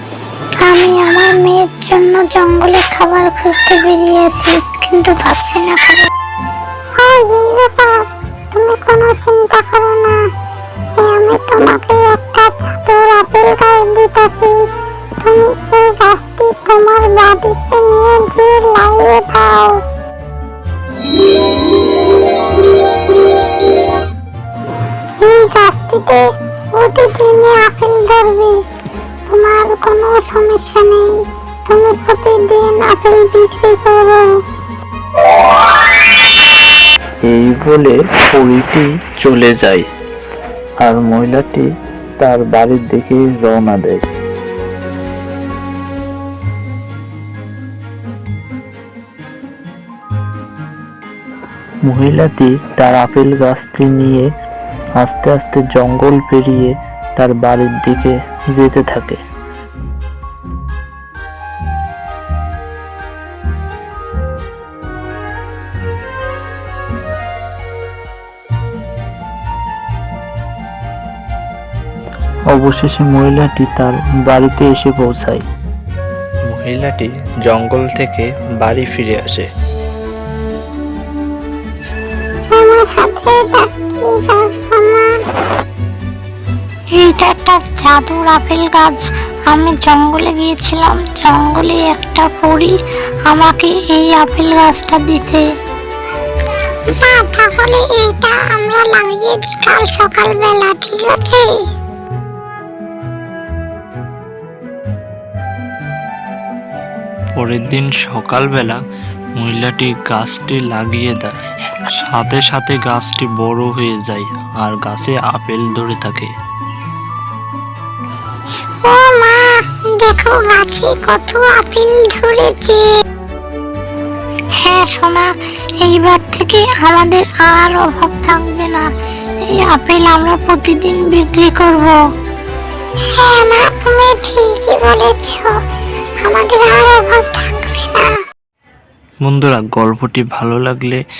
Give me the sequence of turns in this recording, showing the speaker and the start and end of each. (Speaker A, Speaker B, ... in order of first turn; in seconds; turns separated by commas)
Speaker A: 0.6-6.1, Speaker A: 7.0-10.2, Speaker A: 11.0-19.8, Speaker A: 25.2-28.6, Speaker A: 29.3-31.1, Speaker A: 31.7-34.4, Speaker B: 37.2-39.8, Speaker B: 40.8-41.7, Speaker B: 42.2-44.0, Speaker B: 51.8-54.3, Speaker B: 55.0-59.2, Speaker B: 72.5-75.4, Speaker B: 76.5-79.5, Speaker A: 82.5-85.3, Speaker A: 86.9-92.7, Speaker A: 93.3-95.5, Speaker A: 96.9-101.6, Speaker B: 107.4-108.8, Speaker B: 109.4-111.3, Speaker B: 111.9-116.3, Speaker A: 118.8-122.8, Speaker A: 124.6-125.3, Speaker A: 125.8-128.9, Speaker A: 129.5-132.0, Speaker A: 133.1-135.6, Speaker A: 136.2-138.1, Speaker B: 139.2-141.0